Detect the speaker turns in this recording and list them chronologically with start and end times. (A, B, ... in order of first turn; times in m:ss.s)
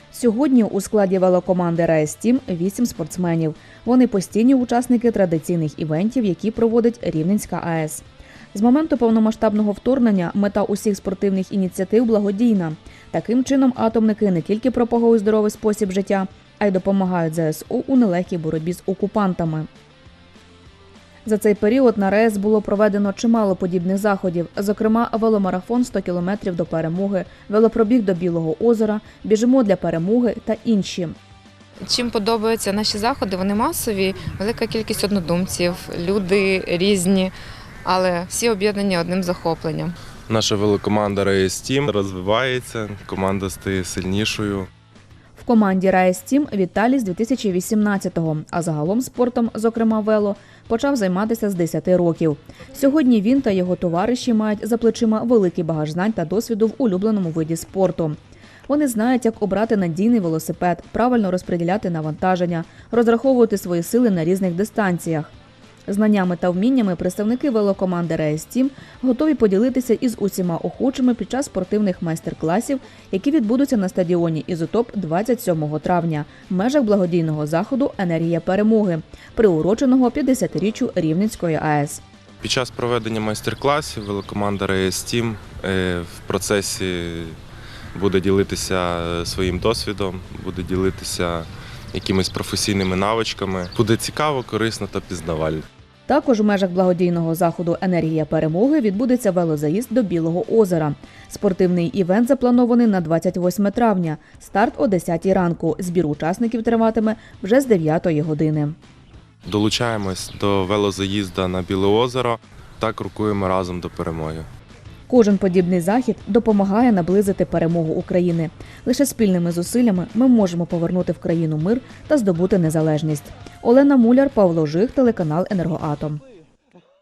0:00.1-0:19.7 A
0:21.2-0:31.1 A
0:31.8-0:37.3 B
0:37.8-0:39.9 B
0:40.3-0:44.7 C
0:45.4-1:05.3 A
1:05.9-1:22.0 A
1:22.4-1:27.4 C
1:27.9-1:35.6 C
1:36.1-1:48.8 A
1:49.5-1:54.4 C
1:55.1-2:06.2 A